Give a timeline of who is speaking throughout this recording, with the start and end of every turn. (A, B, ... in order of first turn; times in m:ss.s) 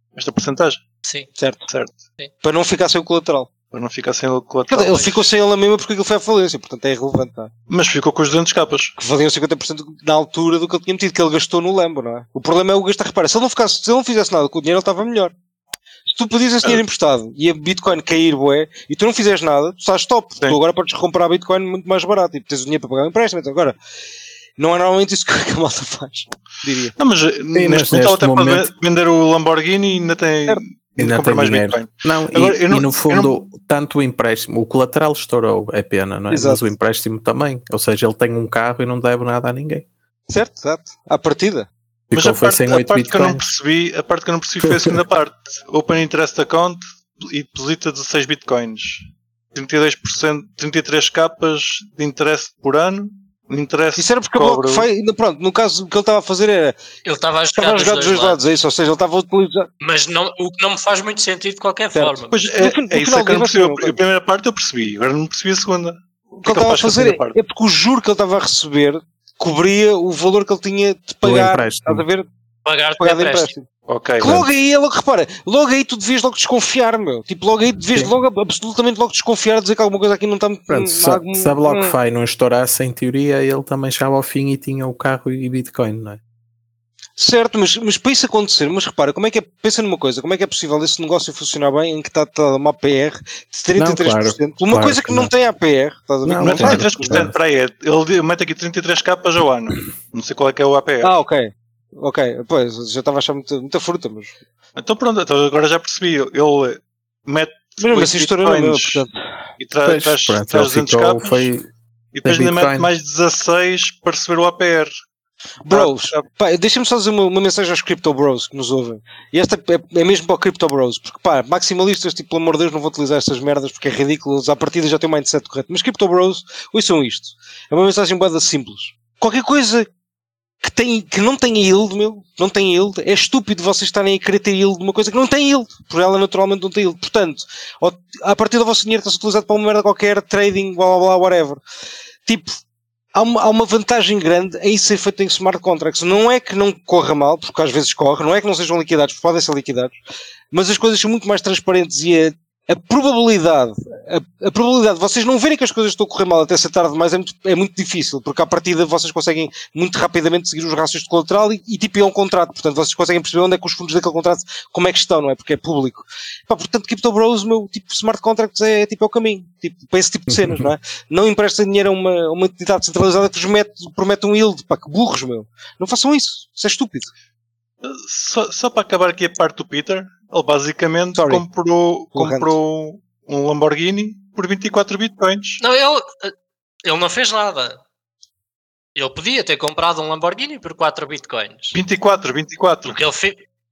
0:00.2-0:00.8 A
0:01.4-0:01.6 B
0:01.7-0:01.9 A
0:02.4-0:03.5 B
0:03.7-0:05.3 A
0:04.7-0:07.5 B
0:07.7-0:08.9 A
0:09.0-0:15.3 B
0:16.1-0:23.8 B
0:24.6-0:26.9 B
0:27.0-0:33.3 A
0:27.5-0:28.7 C
0:31.0-0:39.8 C
0:36.3-0:36.6 B
0:40.3-0:41.7 B
0:42.1-0:43.5 C
0:42.1-0:54.9 A
0:44.6-0:45.0 C
0:54.0-0:56.7 B
0:57.0-0:58.4 D
0:57.5-0:59.7 B
0:59.8-1:02.5 D
1:01.9-1:04.0 B
1:02.3-1:07.4 A
1:06.4-1:12.3 B
1:11.2-1:12.0 C
1:12.6-1:13.5 D
1:13.0-1:13.7 B
1:13.9-1:14.4 A
1:14.2-1:21.9 B
1:20.7-1:26.2 C
1:27.2-1:37.3 B
1:33.8-1:35.3 C
1:36.2-1:37.3 C
1:36.4-1:41.1 A
1:41.0-1:44.4 B
1:44.8-1:49.0 A
1:47.8-1:49.1 B
1:49.6-1:51.5 A
1:49.8-1:51.6 C
1:52.1-1:54.9 A
1:52.2-1:52.9 C
1:55.6-2:09.9 B
1:55.7-1:56.2 A
2:10.6-2:21.6 B
2:22.2-2:22.6 B
2:23.1-2:30.0 B
2:30.5-2:57.1 B
2:50.3-2:50.7 C
2:57.8-3:05.6 A
3:01.1-3:01.4 B
3:02.1-3:02.5 B
3:05.6-3:06.3 D
3:06.8-3:07.8 D
3:08.9-3:11.8 D
3:11.7-3:13.0 A
3:12.9-3:13.4 D